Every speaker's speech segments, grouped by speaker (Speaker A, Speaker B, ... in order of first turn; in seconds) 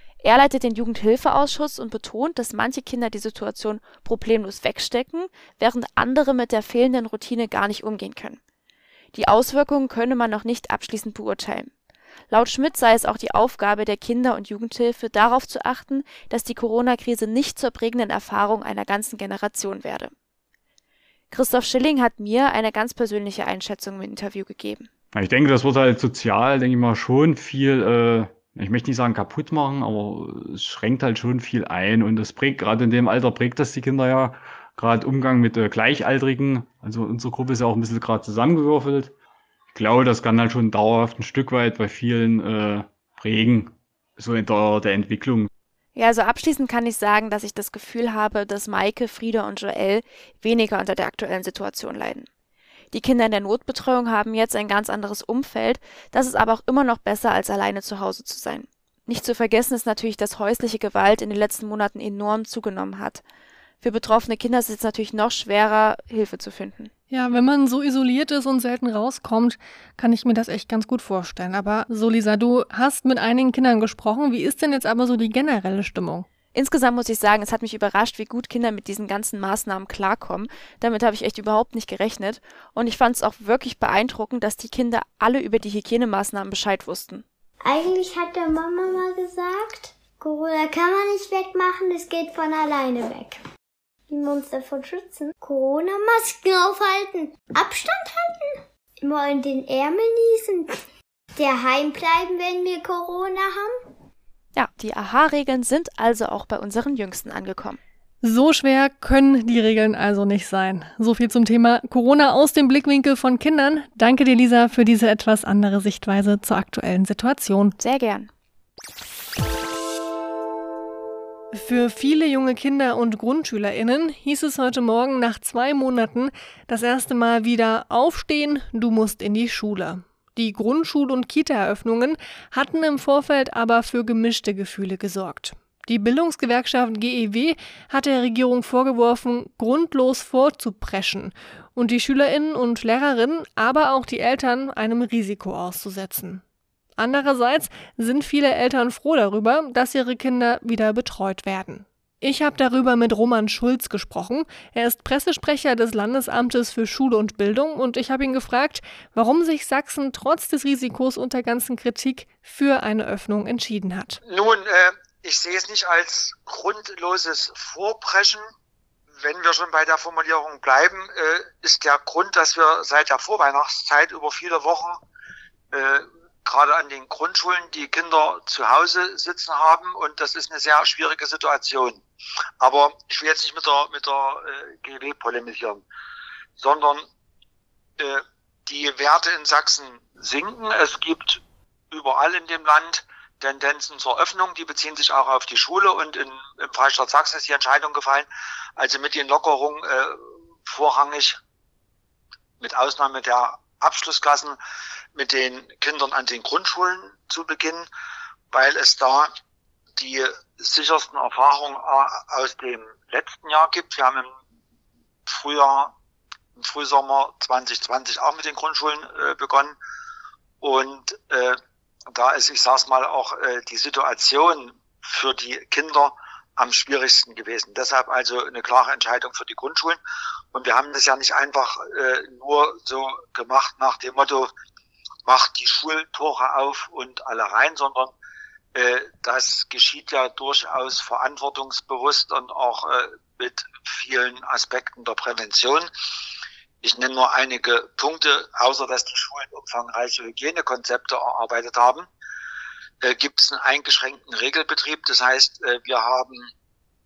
Speaker A: 0.2-8.4, 9.1-11.7, 12.3-20.1, 21.3-24.9, 46.0-52.3, 52.9-63.2, 63.8-66.9, 76.5-87.2, 104.5-107.8, 117.8-118.3
Speaker B: 25.1-39.1, 39.7-45.5
Speaker C: 67.1-76.2, 108.2-117.7, 121.5-146.4, 147.0-164.2
Speaker D: 87.6-93.4, 94.1-100.8, 101.3-103.8
Speaker E: 164.2-168.4, 169.2-175.0, 175.7-182.0, 182.6-185.8, 186.6-187.1, 188.0-191.4, 191.9-201.4, 202.6-204.6, 205.1-207.9, 208.5-209.3, 210.0-214.3, 215.3-215.9, 216.6-219.8, 220.6-221.6, 222.1-230.0, 230.5-234.5, 235.2-238.1, 238.7-245.9, 246.8-252.1, 253.0-256.5